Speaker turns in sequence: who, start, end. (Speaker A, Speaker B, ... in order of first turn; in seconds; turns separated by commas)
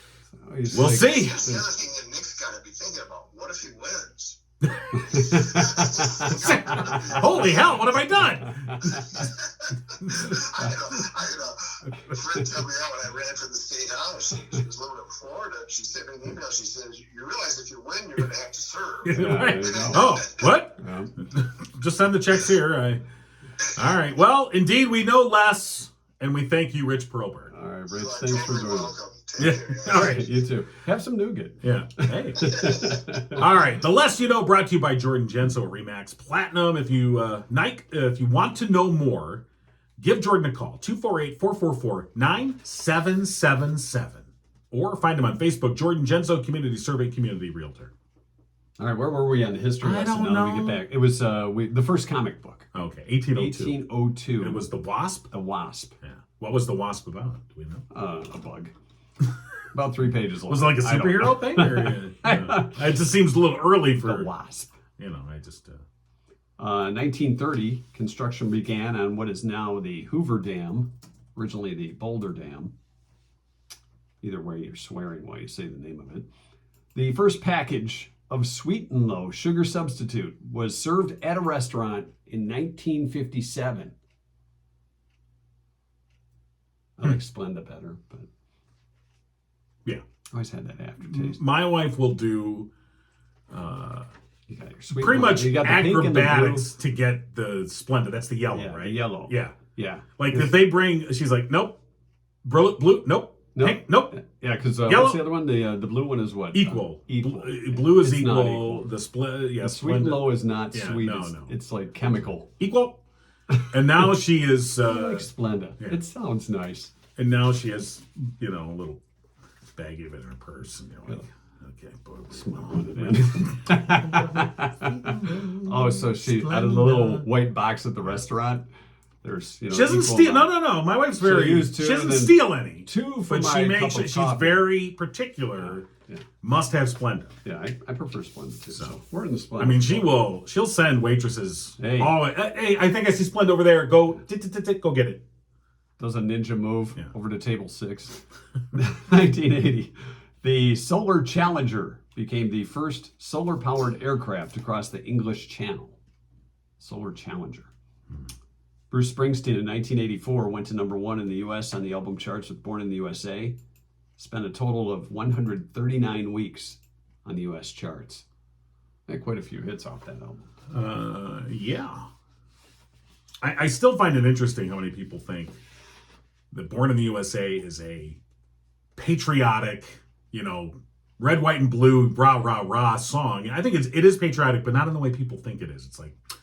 Speaker A: 0.4-1.7, Speaker B: 0.7-1.5, Speaker C: 1.1-7.6, Speaker A: 5.0-7.6, Speaker B: 6.3-9.1, Speaker A: 8.2-9.2, Speaker C: 8.9-20.5, Speaker B: 10.0-10.4, Speaker A: 10.2-10.7, Speaker B: 19.1-23.0, Speaker A: 19.1-20.2, Speaker A: 20.8-21.1, Speaker B: 23.7-27.5, Speaker A: 27.5-28.9, Speaker C: 27.9-30.1, Speaker B: 29.4-30.3, Speaker A: 29.6-33.4, Speaker B: 31.6-32.7, Speaker C: 32.5-32.9, Speaker B: 33.3-39.5, Speaker B: 40.0-47.9, Speaker A: 48.8-52.7, Speaker B: 49.8-50.8, Speaker B: 52.7-53.7, Speaker A: 53.3-54.7, Speaker B: 54.4-55.3, Speaker A: 55.3-56.0, Speaker B: 56.0-57.8, Speaker A: 57.9-58.7, Speaker A: 59.7-62.8, Speaker B: 60.5-64.3, Speaker A: 64.0-64.8, Speaker B: 65.0-65.8, Speaker A: 66.6-72.7, Speaker A: 74.2-76.3, Speaker A: 77.0-83.9, Speaker A: 87.0-88.3, Speaker A: 90.3-91.4, Speaker B: 91.0-92.7, Speaker B: 93.5-94.1, Speaker A: 94.5-96.7, Speaker B: 94.9-99.6, Speaker A: 98.5-100.6, Speaker B: 100.2-101.8, Speaker B: 102.4-104.2, Speaker A: 103.6-108.9, Speaker B: 104.9-105.2, Speaker B: 106.5-111.5, Speaker A: 109.6-112.5, Speaker B: 112.1-113.0, Speaker A: 113.6-114.1, Speaker B: 113.6-115.3, Speaker A: 114.8-116.9, Speaker B: 117.2-119.0, Speaker B: 119.8-127.3, Speaker A: 122.3-128.6, Speaker A: 129.2-130.6, Speaker B: 129.7-135.8, Speaker A: 131.2-134.7, Speaker A: 135.6-136.2, Speaker B: 136.4-137.3, Speaker A: 137.4-140.1, Speaker B: 139.6-145.2, Speaker A: 141.8-142.2, Speaker A: 146.0-148.2, Speaker A: 148.7-156.0, Speaker A: 156.8-157.7, Speaker A: 158.9-163.6, Speaker A: 164.2-168.2, Speaker A: 169.1-170.5, Speaker B: 170.7-172.1, Speaker B: 173.4-175.6, Speaker B: 176.5-178.2, Speaker B: 179.0-186.2